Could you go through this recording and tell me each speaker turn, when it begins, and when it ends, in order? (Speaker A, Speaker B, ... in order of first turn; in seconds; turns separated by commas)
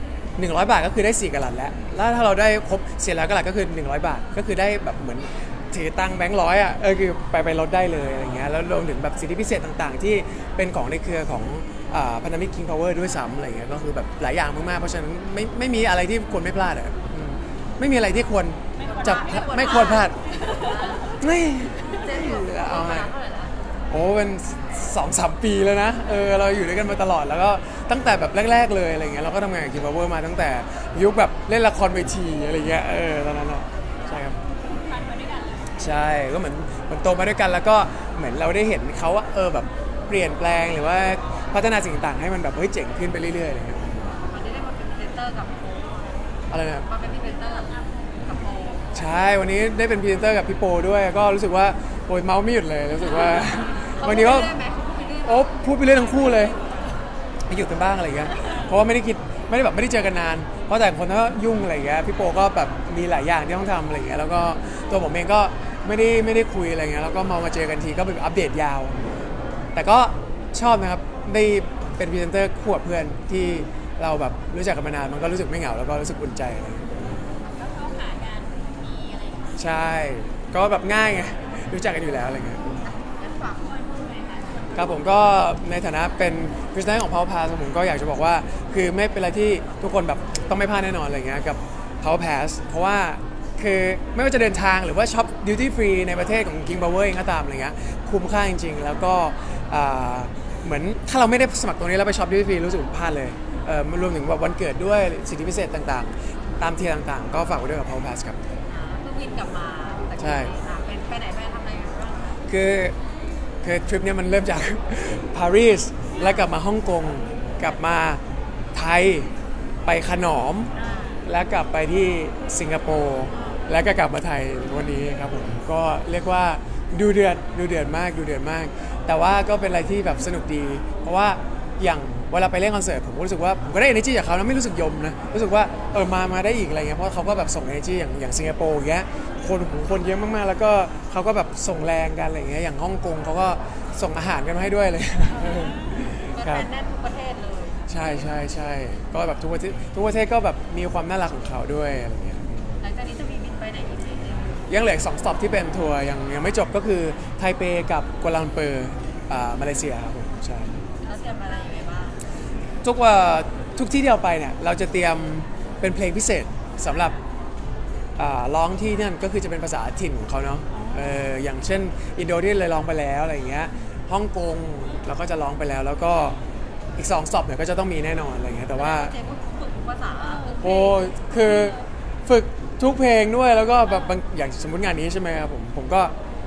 Speaker A: 0.4-20.2, Speaker B: 18.8-21.2, Speaker C: 18.8-23.7, Speaker A: 21.2-23.1, Speaker A: 23.9-34.4, Speaker B: 34.0-35.7, Speaker A: 35.8-44.0, Speaker C: 44.2-46.2, Speaker A: 46.5-46.9, Speaker C: 46.9-49.0, Speaker B: 47.2-49.1, Speaker A: 48.9-54.5, Speaker C: 53.2-56.9, Speaker A: 55.2-56.5, Speaker A: 57.5-69.0, Speaker B: 58.4-58.8, Speaker A: 69.7-77.0, Speaker B: 79.0-79.4, Speaker A: 79.6-82.8, Speaker C: 82.8-83.8, Speaker B: 83.6-85.0, Speaker A: 84.7-108.4, Speaker C: 106.3-106.6, Speaker C: 108.7-112.4, Speaker A: 110.2-110.5, Speaker A: 112.5-113.0, Speaker A: 113.6-118.2, Speaker C: 116.2-116.5, Speaker A: 118.7-119.3, Speaker A: 119.9-120.7, Speaker B: 120.7-121.3, Speaker A: 121.2-146.7, Speaker C: 123.3-123.6, Speaker B: 145.3-146.0, Speaker C: 146.3-147.9, Speaker A: 147.9-152.8, Speaker C: 152.8-154.7, Speaker A: 154.7-160.8, Speaker C: 161.0-162.2, Speaker A: 162.8-167.2, Speaker A: 168.2-176.4, Speaker B: 170.7-171.1, Speaker A: 177.0-179.1, Speaker C: 178.7-180.8, Speaker B: 180.2-181.8, Speaker A: 180.6-186.1